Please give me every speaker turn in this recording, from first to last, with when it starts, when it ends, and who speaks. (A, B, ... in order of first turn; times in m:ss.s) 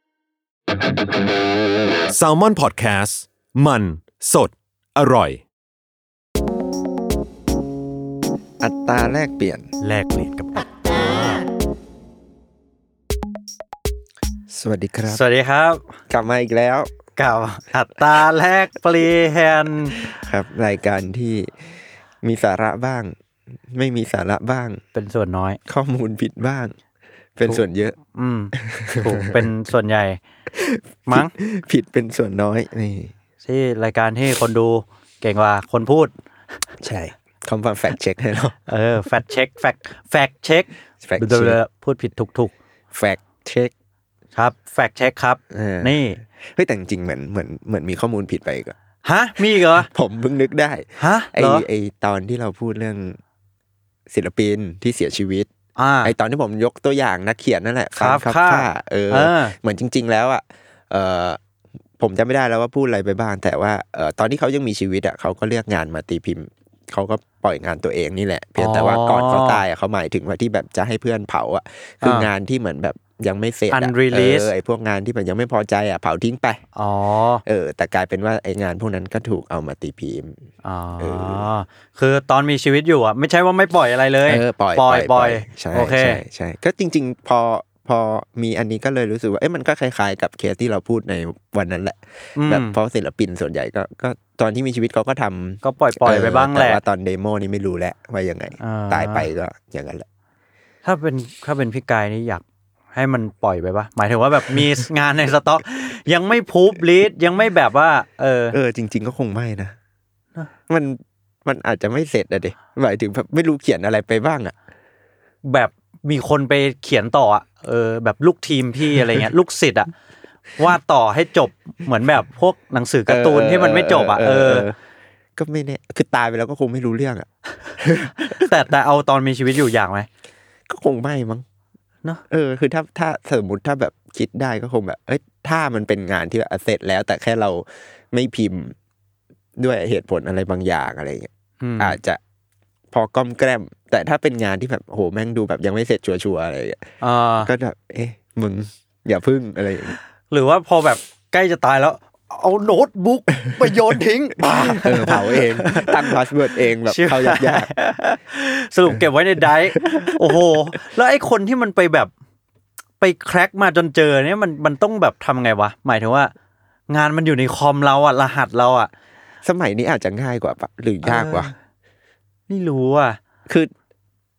0:02.1-0:05.4 A
0:08.6-0:09.7 B
0:09.8-0:11.4 C
0:14.5-0:15.2 B
0:15.1-0:15.8 C
0:16.1-0:16.9 B
0:17.2-0:20.0 C
0:20.0-0:23.1 B
0:23.7-0:24.8 B
0:24.9-0:25.6 C
0:25.7-0:26.7 B
0:27.4-0:28.0 B
0:28.1-0:30.2 C
0:28.6-0:29.4 B
0:30.5-0:33.1 B
0:31.0-0:31.3 C
0:33.4-0:36.1 C
0:36.8-0:38.6 B
0:38.7-0:42.5 C
0:41.0-0:41.6 B
0:42.9-0:43.7 B
0:44.4-0:46.2 C
0:45.5-0:48.7 B
0:49.0-0:49.9 C
0:49.4-0:53.2 B
0:51.0-0:51.6 C
0:54.1-0:55.5 B
0:55.8-0:56.1 C
0:56.0-1:01.4 B
0:58.0-0:59.5 C
1:02.0-1:16.6 B
1:08.6-1:09.6 C
1:12.0-1:12.3 C
1:13.7-1:14.5 C
1:16.8-1:17.4 C
1:17.4-1:20.3 B
1:20.6-1:26.2 C
1:21.0-1:21.4 B
1:24.2-1:40.0 B
1:32.4-1:32.8 C
1:35.6-1:36.8 C
1:38.6-1:39.3 C
1:40.8-1:48.6 C
1:48.5-1:49.7 B
1:50.7-1:54.5 B
1:55.4-1:59.9 C
2:00.6-2:04.7 C
2:03.1-2:04.7 B
2:05.4-2:07.3 B
2:07.8-2:08.5 B
2:08.2-2:10.1 C
2:10.7-2:11.4 B
2:12.3-2:18.7 B
2:19.6-2:22.2 B
2:21.6-2:22.0 C
2:22.9-2:26.8 B
2:27.0-2:27.5 C
2:27.4-2:30.0 B
2:30.3-2:36.2 C
2:34.6-2:37.7 B
2:36.8-2:42.1 C
2:39.7-2:40.4 B
2:43.0-2:46.3 C
2:46.9-2:48.9 C
2:49.4-2:51.5 B
2:51.0-2:51.5 C
2:52.5-2:53.2 C